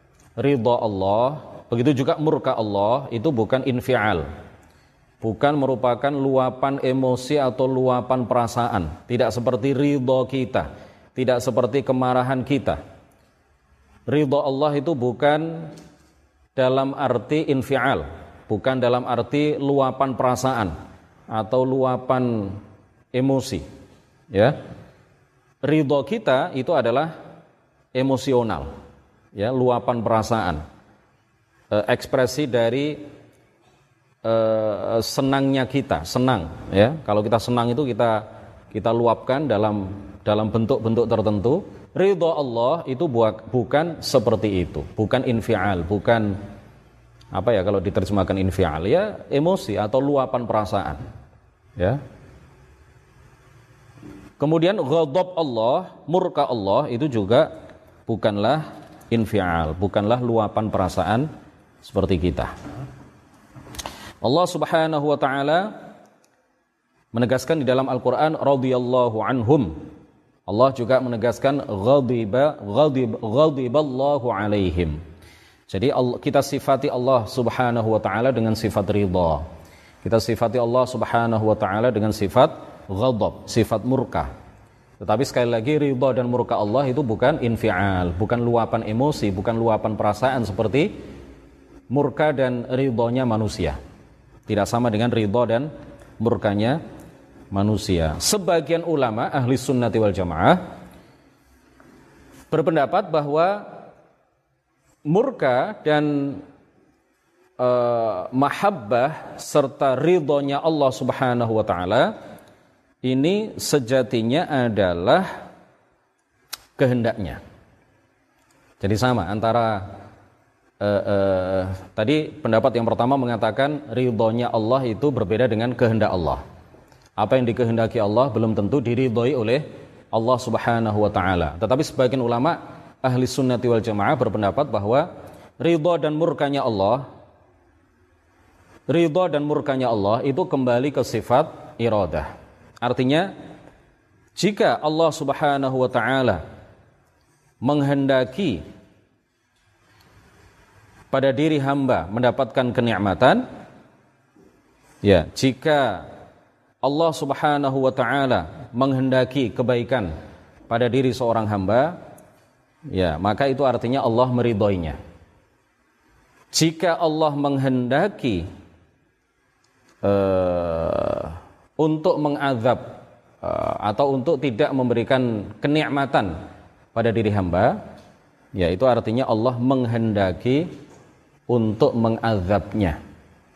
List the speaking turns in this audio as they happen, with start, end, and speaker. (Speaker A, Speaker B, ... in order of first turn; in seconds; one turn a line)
Speaker A: 0.4-4.2
Speaker A: 5.2-12.8
Speaker A: 14.1-15.7
Speaker A: 16.6-20.7
Speaker A: 21.3-22.6
Speaker A: 23.1-23.6
Speaker A: 24.3-24.6
Speaker A: 25.6-27.1
Speaker A: 27.9-28.7
Speaker A: 29.3-30.6
Speaker A: 31.7-33.0
Speaker A: 34.2-46.4
Speaker A: 47.3-51.0
Speaker A: 54.4-57.5
Speaker A: 58.1-61.3
Speaker A: 61.8-62.5
Speaker A: 64.2-65.7
Speaker A: 67.1-69.8
Speaker A: 70.5-75.0
Speaker A: 75.7-79.4
Speaker A: 80.0-84.3
Speaker A: 85.0-90.9
Speaker A: 91.9-93.8
Speaker A: 94.5-96.8
Speaker A: 97.5-100.6
Speaker A: 102.5-103.6
Speaker A: 105.1-106.4
Speaker A: 107.6-112.1
Speaker A: 113.0-115.3
Speaker A: 116.8-117.4
Speaker A: 118.8-119.9
Speaker A: 120.8-126.4
Speaker A: 127.2-135.1
Speaker A: 135.6-137.1
Speaker A: 138.9-142.3
Speaker A: 142.8-143.3
Speaker A: 144.3-146.4
Speaker A: 147.6-148.6
Speaker A: 151.1-153.4
Speaker A: 155.0-156.1
Speaker A: 156.8-160.1
Speaker A: 160.7-161.9
Speaker A: 162.9-165.0
Speaker A: 166.5-168.4
Speaker A: 170.0-172.9
Speaker A: 173.4-176.3
Speaker A: 176.9-177.8
Speaker A: 178.5-180.7
Speaker A: 181.5-183.0